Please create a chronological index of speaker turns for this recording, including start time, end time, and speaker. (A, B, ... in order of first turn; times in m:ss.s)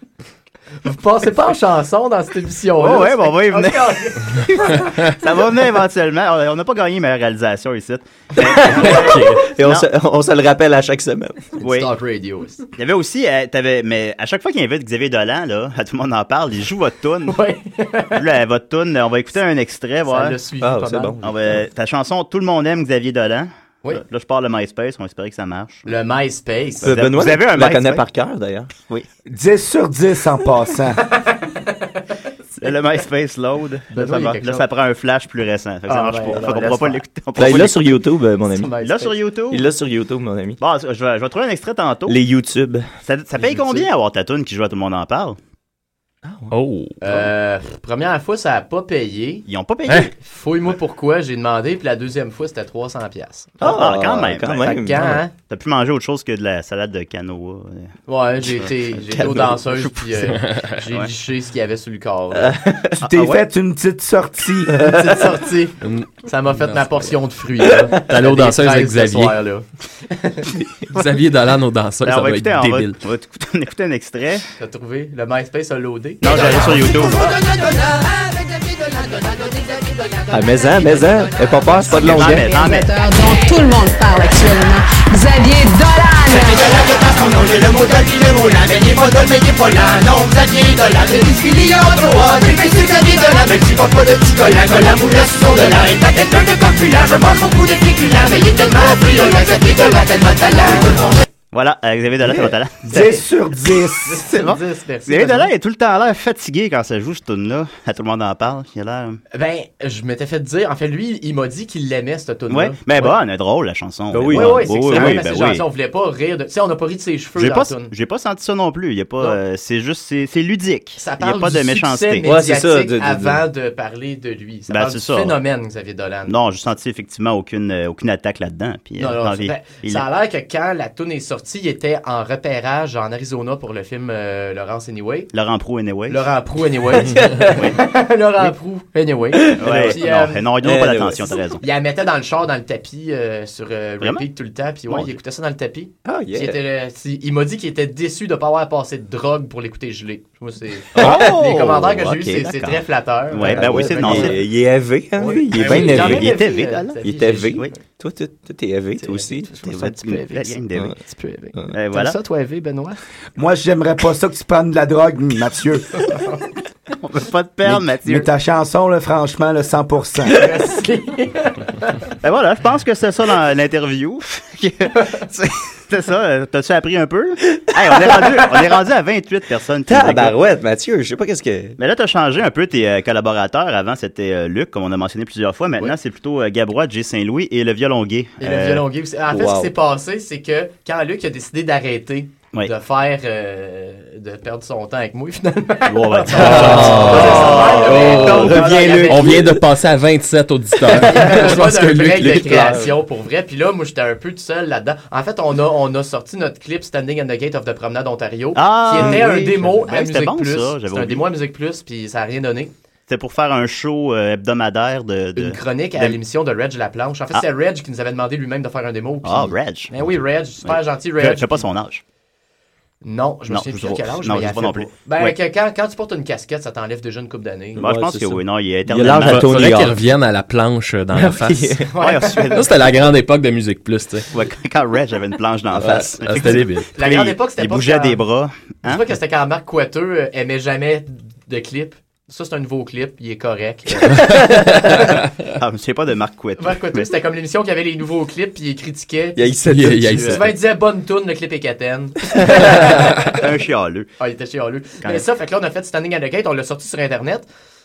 0:00.8-0:04.9 A
0:02.8-0:09.9 B
0:08.4-0:11.4 C
0:08.7-0:09.3 A
0:11.6-0:12.7 A
0:11.6-0:11.9 B
0:12.8-0:17.4 B
0:17.3-0:18.2 A
0:18.2-0:20.4 B
0:20.1-0:21.2 A
0:20.6-0:21.6 C
0:21.2-0:25.9 B
0:25.9-0:26.9 A
0:26.8-0:28.0 B
0:26.8-0:28.7 C
0:29.3-0:31.0 D
0:31.1-0:32.0 A
0:32.6-0:37.8 B
0:33.9-0:34.7 A
0:35.9-0:37.0 A
0:37.4-0:38.7 C
0:38.5-0:39.2 A
0:38.8-0:39.6 B
0:39.5-0:40.6 C
0:40.6-0:42.2 B
0:42.1-0:42.9 C
0:43.0-0:45.4 B
0:43.4-0:43.9 A
0:46.3-0:46.5 C
0:46.5-0:47.0 E
0:47.0-0:49.5 A
0:49.5-0:50.1 B
0:50.2-0:53.7 A
0:53.6-0:54.7 B
0:53.6-0:55.2 C
0:54.6-0:55.3 A
0:55.4-0:57.9 B
0:58.1-1:02.6 A
0:58.4-0:58.7 B
0:59.2-0:59.6 C
1:00.3-1:00.7 E
1:02.4-1:03.0 C
1:03.0-1:04.8 D
1:03.0-1:03.4 B
1:04.7-1:05.2 C
1:04.8-1:10.5 A
1:05.8-1:07.2 E
1:07.9-1:09.4 E
1:10.9-1:13.0 E
1:12.0-1:14.5 B
1:14.6-1:17.4 A
1:16.2-1:17.2 B
1:16.4-1:41.2 F
1:20.3-1:22.5 C
1:21.9-1:22.9 B
1:41.5-1:43.2 B
1:42.3-1:44.3 D
1:44.0-1:45.5 A
1:44.3-1:49.2 B
1:49.3-1:53.2 A
1:52.5-1:55.6 B
1:54.1-1:55.2 C
1:54.3-1:57.9 A
1:57.4-2:02.3 B
2:01.0-2:06.3 A
2:02.2-2:03.4 C
2:04.7-2:05.4 B
2:06.3-2:10.1 B
2:09.0-2:15.3 A
2:15.3-2:16.3 B
2:16.1-2:20.5 A
2:17.0-2:17.6 C
2:17.5-2:17.8 B
2:19.3-2:20.0 C
2:19.6-2:21.6 B
2:20.6-2:21.4 C
2:21.6-2:34.4 A
2:24.9-2:25.1 B
2:26.0-2:26.6 C
2:31.0-2:34.4 B
2:31.0-2:31.3 C
2:33.4-2:36.4 C
2:35.2-2:37.8 A
2:35.5-2:37.0 B
2:37.0-2:39.5 C
2:39.0-2:43.0 A
2:39.6-2:41.0 B
2:41.7-2:42.2 B
2:43.4-2:45.9 D
2:47.0-2:48.3 B
2:47.7-2:50.5 D
2:50.3-2:52.0 A
2:52.2-3:00.4 B
2:58.0-2:58.5 C
2:59.9-3:01.8 C
3:01.8-3:08.8 B
3:08.4-3:19.4 A
3:09.3-3:09.7 C
3:15.9-3:18.5 B
3:16.4-3:22.6 E
3:16.4-3:19.6 C
3:20.8-3:21.5 C
3:20.9-3:32.7 A
3:22.2-3:22.9 C
3:28.6-3:31.3 B
3:29.0-3:29.2 C
3:33.1-3:36.2 B
3:35.4-3:41.7 A
3:39.2-3:42.0 B
3:43.0-3:47.8 A
3:43.5-3:45.4 B
3:47.8-3:50.0 C
3:47.8-3:49.8 B
3:49.2-3:51.8 E
3:51.1-3:51.9 C
3:51.9-3:52.7 A
3:52.0-3:53.1 B
3:52.5-3:54.3 E
3:54.3-3:59.0 B
3:55.7-3:56.6 C
3:56.2-3:56.9 E
3:57.0-3:58.2 A
3:58.8-4:05.0 A
4:04.2-4:04.6 E
4:04.3-4:04.7 C
4:05.6-4:07.1 B
4:06.6-4:13.0 A
4:09.4-4:10.5 C
4:09.7-4:10.5 E
4:12.4-4:13.0 C
4:13.3-4:14.1 B
4:14.2-4:17.5 A